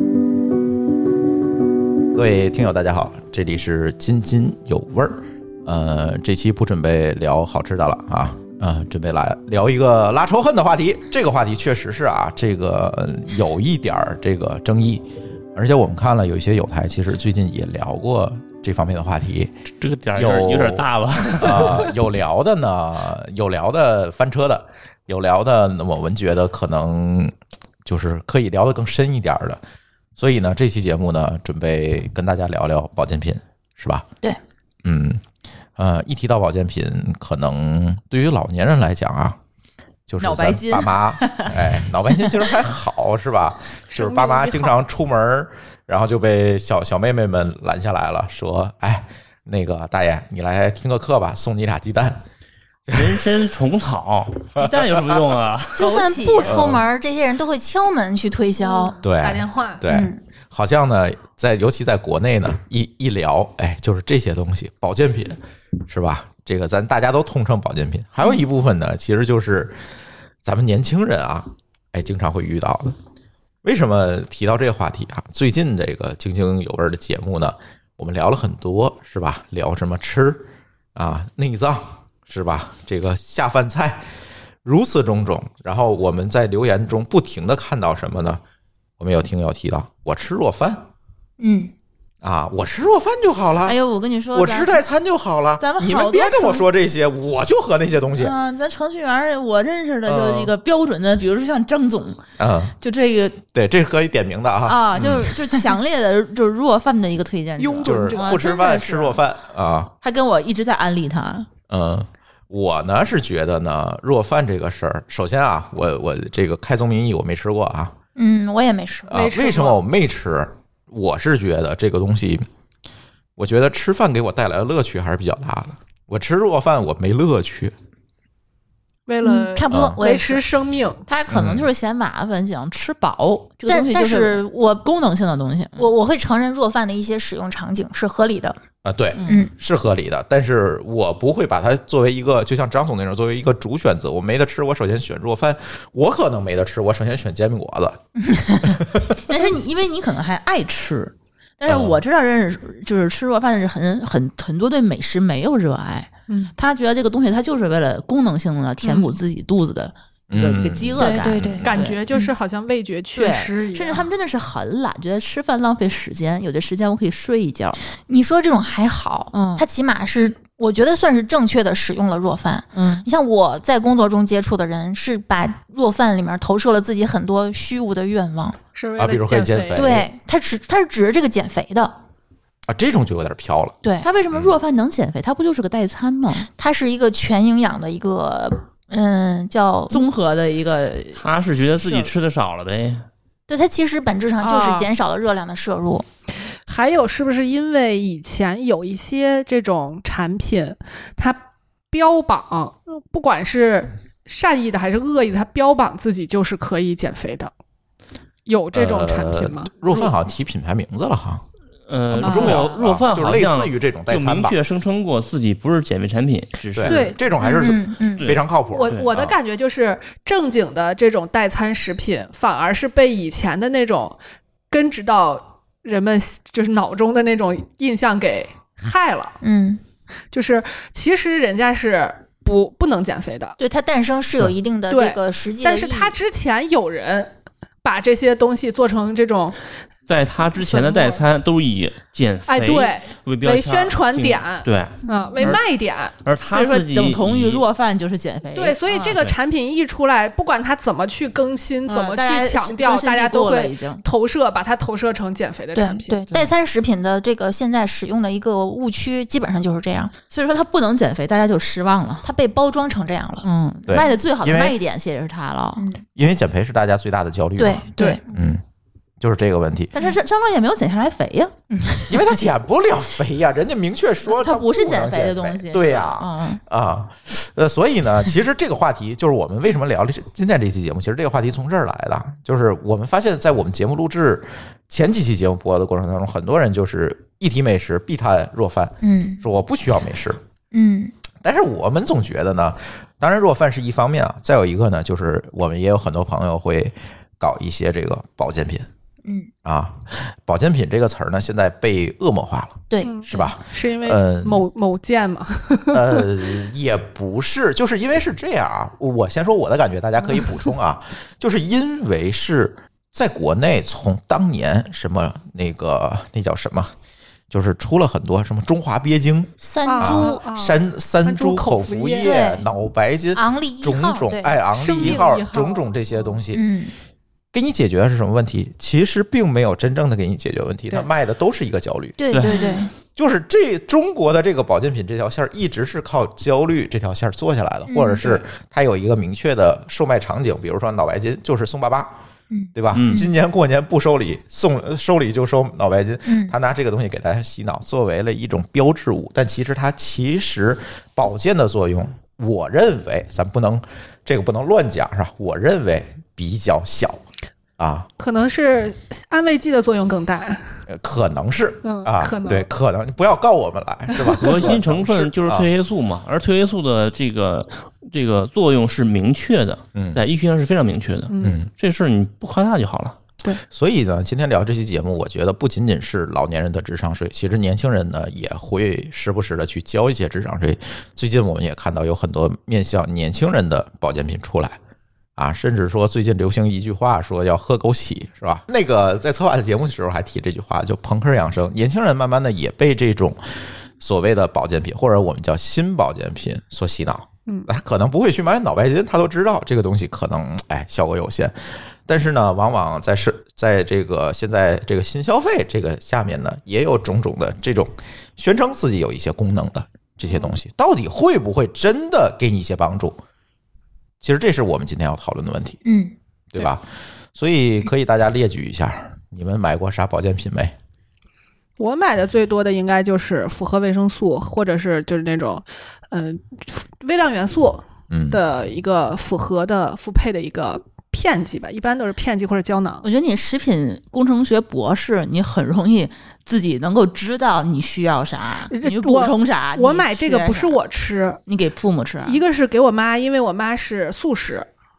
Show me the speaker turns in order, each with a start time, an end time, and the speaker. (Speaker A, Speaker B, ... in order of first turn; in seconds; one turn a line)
Speaker A: 2.1-19.5
Speaker B: 19.8-21.9
Speaker A: 20.1-20.8
Speaker A: 21.4-29.6
Speaker A: 30.2-34.1
Speaker A: 34.8-35.2
Speaker A: 35.8-39.4
Speaker A: 40.1-52.2
Speaker C: 40.2-42.5
Speaker D: 43.9-44.8
Speaker A: 52.9-53.2
Speaker B: 52.9-56.0
Speaker A: 54.6-55.1
Speaker C: 55.8-56.8
Speaker E: 55.8-59.0
Speaker A: 56.4-56.8
Speaker D: 58.6-59.8
Speaker A: 59.0-69.8
Speaker E: 59.9-60.2
Speaker A: 70.4-73.0
Speaker A: 73.6-84.0
Speaker A: 84.6-88.4
Speaker A: 89.0-90.9
Speaker E: 91.4-91.7
Speaker A: 92.2-93.8
Speaker C: 93.6-94.8
Speaker A: 94.3-98.3
Speaker C: 95.6-96.7
Speaker C: 98.2-102.2
Speaker A: 100.1-100.5
Speaker A: 102.4-102.7
Speaker C: 102.8-103.4
Speaker A: 103.5-105.4
Speaker C: 104.7-109.2
Speaker D: 107.6-108.4
Speaker A: 107.8-109.9
Speaker C: 110.0-111.5
Speaker A: 111.7-118.0
Speaker E: 118.2-119.1
Speaker A: 119.1-122.5
Speaker D: 119.1-119.8
Speaker A: 123.4-127.7
Speaker D: 129.1-131.1
Speaker E: 129.2-130.4
Speaker A: 129.7-130.0
Speaker C: 131.1-135.9
Speaker A: 131.3-131.7
Speaker E: 133.7-134.8
Speaker E: 135.8-138.6
Speaker A: 138.8-148.0
Speaker C: 139.2-139.5
Speaker E: 139.2-139.5
Speaker A: 148.6-149.2
Speaker C: 149.2-162.0
Speaker A: 151.7-152.0
Speaker D: 158.8-159.1
Speaker A: 160.3-161.7
Speaker D: 161.0-164.1
Speaker E: 161.2-162.3
Speaker C: 163.2-167.8
Speaker E: 168.1-178.6
Speaker C: 169.3-169.7
Speaker C: 172.8-173.1
Speaker D: 178.8-180.0
Speaker A: 179.0-180.1
Speaker E: 179.8-181.9
Speaker A: 182.7-183.8
Speaker E: 183.8-184.1
Speaker C: 184.0-186.5
Speaker E: 186.6-190.0
Speaker C: 189.9-192.1
Speaker B: 191.2-193.1
Speaker E: 193.5-196.1
Speaker C: 194.4-194.9
Speaker D: 196.7-207.5
Speaker D: 208.5-210.1
Speaker A: 208.7-211.4
Speaker B: 211.9-217.1
Speaker A: 212.1-214.6
Speaker D: 212.2-212.7
Speaker A: 216.7-219.3
Speaker D: 216.8-217.5
Speaker E: 217.4-218.4
Speaker B: 218.2-219.1
Speaker D: 218.7-224.2
Speaker D: 224.7-229.4
Speaker E: 229.4-229.8
Speaker D: 230.3-233.6
Speaker E: 233.6-236.2
Speaker D: 234.9-239.6
Speaker B: 240.1-245.6
Speaker D: 240.6-241.2
Speaker D: 242.5-246.1
Speaker B: 246.2-247.6
Speaker C: 246.4-249.2
Speaker D: 248.5-256.2
Speaker C: 251.9-254.0
Speaker E: 255.7-260.1
Speaker C: 260.3-262.3
Speaker E: 262.2-263.5
Speaker C: 263.4-265.9
Speaker A: 263.9-264.8
Speaker E: 265.8-266.0
Speaker A: 266.1-268.6
Speaker E: 267.6-268.2
Speaker A: 269.2-269.9
Speaker C: 269.9-271.5
Speaker E: 271.7-272.2
Speaker A: 272.1-290.4
Speaker C: 274.2-276.6
Speaker E: 289.0-289.4
Speaker E: 290.7-291.1
Speaker A: 291.4-298.9
Speaker E: 299.2-299.5
Speaker A: 299.6-304.6
Speaker E: 302.9-303.5
Speaker D: 303.0-306.3
Speaker A: 305.9-316.9
Speaker A: 317.5-326.6
Speaker E: 319.6-320.3
Speaker D: 319.8-322.3
Speaker E: 322.2-322.6
Speaker E: 323.3-325.1
Speaker D: 324.7-326.4
Speaker E: 326.5-326.9
Speaker A: 327.5-332.2
Speaker E: 332.2-332.9
Speaker B: 332.3-332.7
Speaker A: 333.1-342.1
Speaker E: 337.9-338.4
Speaker E: 342.5-343.3
Speaker A: 342.7-357.2
Speaker B: 342.9-343.2
Speaker E: 346.2-346.5
Speaker A: 357.8-358.1
Speaker D: 358.2-360.8
Speaker A: 360.9-365.7
Speaker D: 361.8-362.7
Speaker D: 364.1-364.6
Speaker B: 364.4-373.2
Speaker A: 369.9-370.2
Speaker D: 371.3-371.6
Speaker A: 371.4-371.7
Speaker A: 373.6-384.8
Speaker A: 385.4-401.5
Speaker A: 402.1-413.2
Speaker D: 410.2-410.5
Speaker A: 414.2-415.8
Speaker E: 415.8-416.1
Speaker A: 416.5-416.8
Speaker A: 417.3-420.7
Speaker D: 421.8-433.1
Speaker A: 428.1-428.4
Speaker C: 433.0-440.8
Speaker D: 438.7-441.4
Speaker C: 441.5-442.4
Speaker D: 442.2-444.7